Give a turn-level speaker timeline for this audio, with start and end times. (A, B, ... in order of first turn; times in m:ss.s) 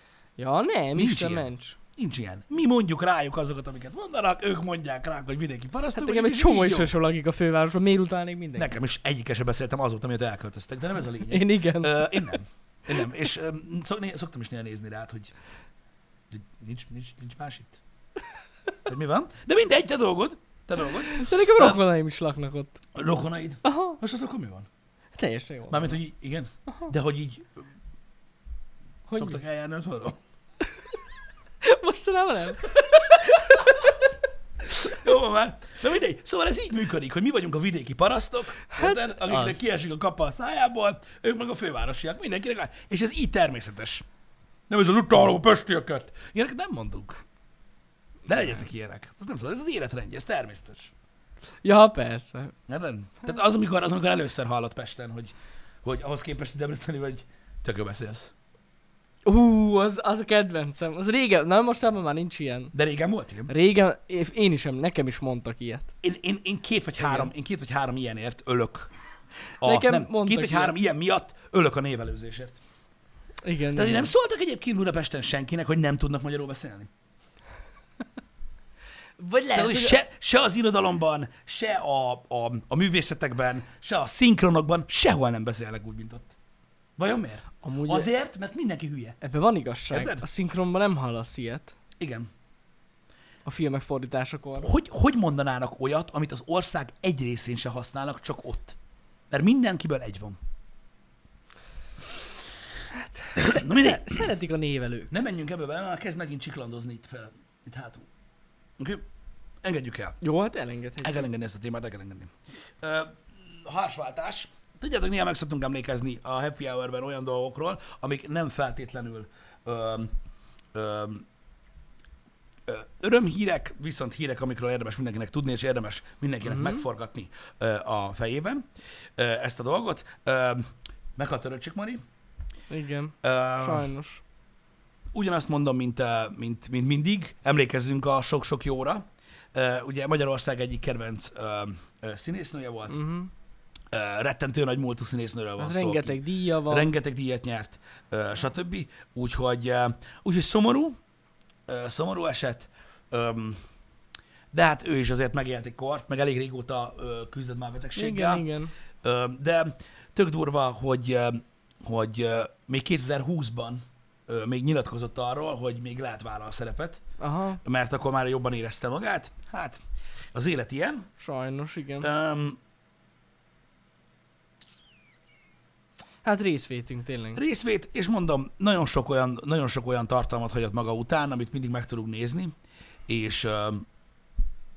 0:00.4-0:01.8 A
0:00.9-0:06.9 B
0:05.9-0:08.7 A
0:08.6-0:15.3 B
0:11.3-0:12.3 A
0:16.3-0:17.8 B
0:18.8-0:21.8 B
0:21.0-0:22.8 A
0:22.9-0:24.7 B
0:23.6-0:24.0 A
0:25.2-0:26.0 A
0:25.7-0:27.6 B
0:29.1-0:29.4 A
0:29.1-0:30.2 B
0:31.6-0:33.9 A
0:33.0-0:33.9 B
0:34.6-0:44.0 B
0:38.7-0:39.6 A
0:44.7-0:47.2 B
0:48.2-0:50.9 B
0:48.3-0:48.6 A
0:51.6-0:52.5 A
0:52.7-0:58.3 B
0:59.2-1:02.7 A
1:02.7-1:03.5 B
1:03.5-1:05.9 A
1:06.0-1:08.9 B
1:07.0-1:07.3 A
1:09.6-1:12.6 B
1:09.6-1:10.7 A
1:13.4-1:14.1 A
1:13.7-1:16.9 B
1:19.2-1:20.0 A
1:19.5-1:26.3 B
1:27.0-1:29.2 B
1:27.6-1:28.1 A
1:29.2-1:31.8 A
1:29.9-1:30.2 B
1:32.0-1:32.3 B
1:33.4-1:34.7 A
1:34.6-1:38.8 B
1:39.3-1:40.4 B
1:42.9-1:45.1 A
1:43.4-1:44.3 B
1:45.1-1:48.1 B
1:48.8-1:49.0 B
1:49.6-1:50.2 B
1:50.2-1:51.3 A
1:51.0-2:00.1 B
2:00.7-2:01.2 B
2:02.6-2:12.0 B
2:06.4-2:06.8 A
2:12.7-2:14.2 A
2:13.2-2:13.9 B
2:15.1-2:23.0 B
2:22.9-2:23.3 A
2:23.9-2:31.0 B
2:25.6-2:26.9 A
2:31.7-2:33.6 B
2:34.5-2:38.4 B
2:37.9-2:38.7 A
2:39.0-2:47.0 B
2:47.2-2:47.6 A
2:47.6-2:51.1 B
2:51.2-2:52.1 A
2:52.0-2:52.6 B
2:56.2-2:57.4 A
2:57.3-3:02.5 B
3:03.1-3:03.8 B